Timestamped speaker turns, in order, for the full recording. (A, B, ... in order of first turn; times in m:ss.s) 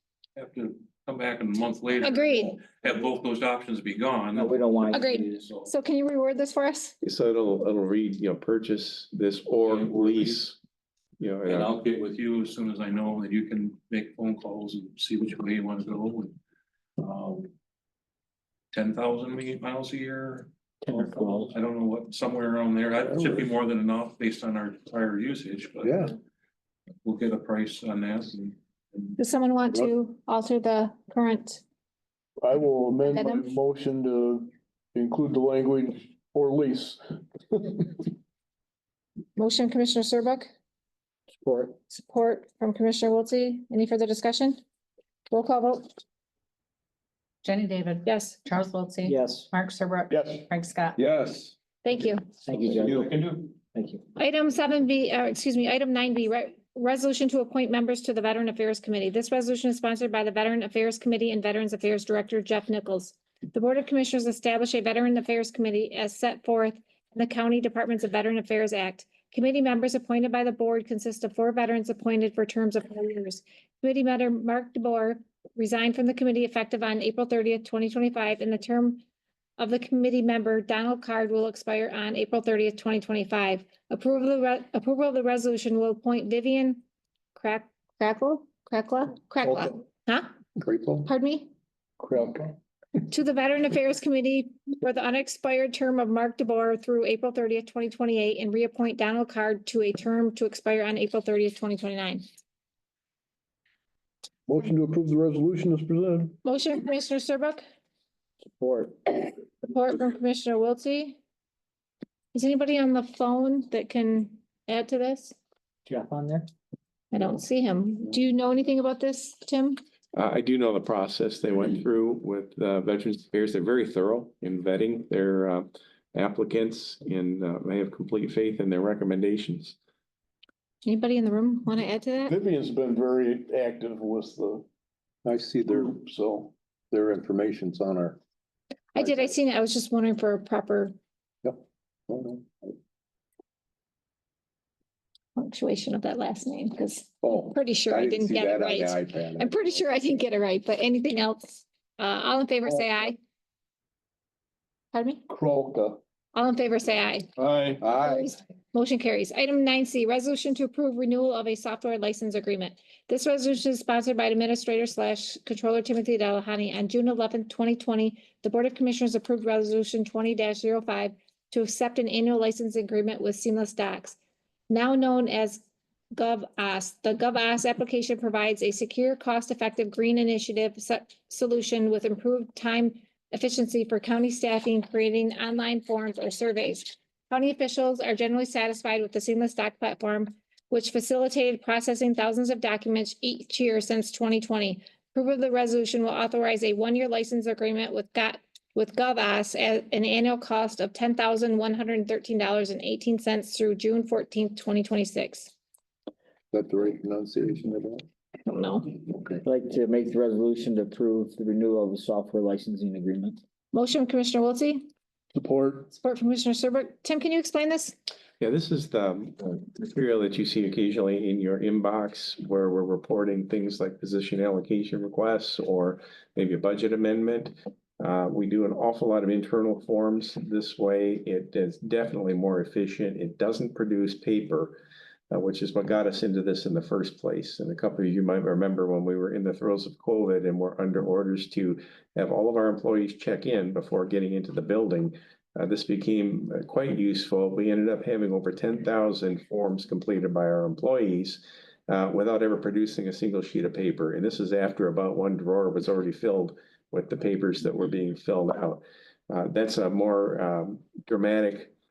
0:00.4-0:05.7 A
0:02.0-0:02.6 B
0:04.3-0:05.4 C
0:04.9-0:06.9 B
0:07.0-0:10.6 D
0:09.6-0:10.4 A
0:11.2-0:11.7 D
0:11.4-0:16.3 A
0:17.0-0:17.5 A
0:18.7-0:26.1 A
0:20.8-0:21.5 C
0:23.1-0:23.5 E
0:25.8-0:26.1 E
0:27.0-0:29.2 A
0:29.2-0:31.6 B
0:32.4-0:38.0 F
0:33.1-0:33.5 B
0:39.4-0:40.5 B
0:41.4-0:41.8 C
0:41.9-0:44.6 B
0:45.3-0:45.9 B
0:47.4-0:51.0 G
0:48.0-0:48.4 B
0:49.0-0:49.5 C
0:50.1-0:50.5 F
0:51.0-0:51.5 E
0:51.8-0:52.3 B
0:52.4-0:54.0 C
0:52.8-0:53.2 E
0:54.2-1:19.0 B
1:19.6-1:26.8 B
1:27.4-1:30.3 B
1:30.6-1:31.1 E
1:31.0-1:31.5 B
1:32.0-1:32.5 E
1:33.1-1:42.2 B
1:44.5-1:46.4 F
1:46.4-1:47.6 B
1:48.5-1:49.1 C
1:49.6-1:51.2 B
1:52.3-1:55.4 B
1:55.9-1:56.5 C
1:57.1-1:59.8 B
2:00.1-2:09.8 D
2:10.8-2:12.3 B
2:12.3-2:14.6 F
2:15.2-2:16.0 E
2:15.6-2:16.5 F
2:16.9-2:18.2 E
2:18.9-2:21.0 B
2:19.0-2:19.3 E
2:21.4-2:22.5 E
2:25.4-2:33.2 B
2:27.2-2:29.6 E
2:34.9-2:35.2 B
2:35.3-2:36.0 F
2:36.3-2:37.3 B
2:37.4-2:37.9 F
2:37.8-2:38.3 E
2:37.9-2:54.2 B
2:54.7-3:25.5 B
3:26.5-3:28.0 E
3:28.4-3:29.1 B
3:29.4-3:33.4 C
3:33.7-3:34.9 B
3:35.3-3:35.9 F
3:35.9-3:37.9 B
3:38.4-3:54.8 D
3:55.3-4:21.7 D